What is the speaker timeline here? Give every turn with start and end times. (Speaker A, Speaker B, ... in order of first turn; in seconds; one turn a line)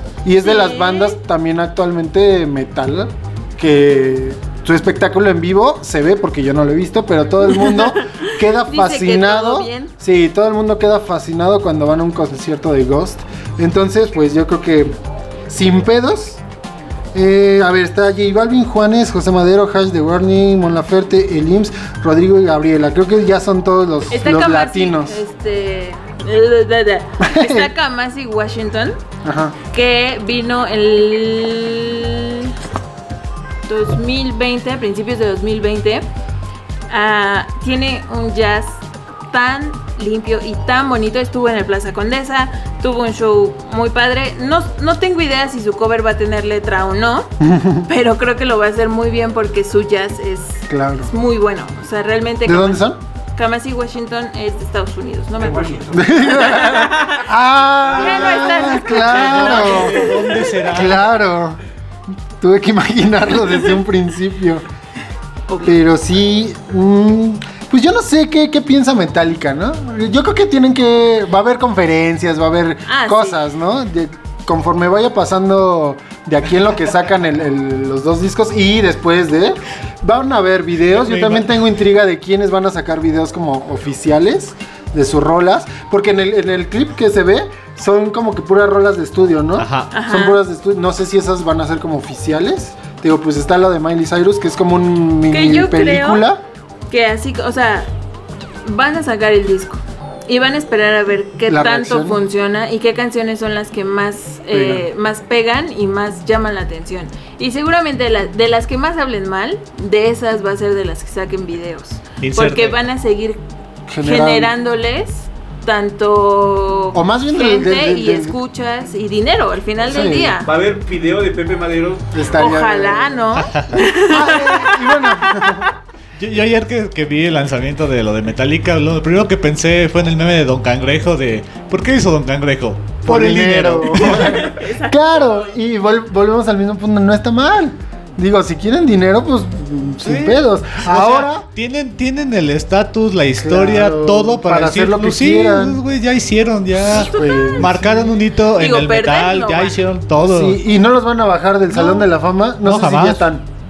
Speaker A: 0.2-14.9
Speaker B: 0.4-1.2
Speaker B: 7.8-9.9
Speaker A: 15.5-16.4
Speaker A: 17.1-25.2
Speaker B: 24.1-29.0
Speaker A: 27.2-27.7
Speaker A: 29.2-29.6
Speaker B: 29.7-32.6
Speaker B: 33.7-36.1
Speaker B: 36.9-47.3
Speaker A: 47.4-47.9
Speaker B: 47.8-57.2
Speaker A: 50.7-51.1
Speaker A: 52.5-53.0
Speaker C: 55.4-56.7
Speaker A: 55.9-60.1
Speaker D: 57.9-61.1
Speaker B: 58.0-60.2
Speaker A: 60.7-61.6
Speaker A: 62.4-64.6
Speaker B: 65.5-65.8
Speaker A: 65.6-96.4
Speaker B: 72.9-73.4
Speaker D: 80.9-81.5
Speaker D: 89.6-89.9
Speaker B: 89.9-90.4
Speaker B: 95.3-96.2
Speaker B: 96.9-97.9
Speaker B: 98.6-113.4
Speaker A: 101.5-102.2
Speaker A: 104.5-104.9
Speaker D: 112.2-112.8
Speaker A: 113.9-114.5
Speaker B: 114.0-120.5
Speaker A: 116.9-118.4
Speaker A: 119.8-120.3
Speaker C: 120.4-122.5
Speaker A: 122.1-123.3
Speaker B: 122.3-125.6
Speaker D: 123.4-123.8
Speaker A: 124.0-125.7
Speaker D: 126.2-134.4
Speaker A: 133.0-141.4
Speaker B: 134.0-135.4
Speaker D: 140.0-150.6
Speaker A: 143.4-145.8
Speaker B: 146.9-147.7
Speaker A: 146.9-148.1
Speaker B: 148.6-149.8
Speaker A: 150.2-153.5
Speaker D: 152.6-153.3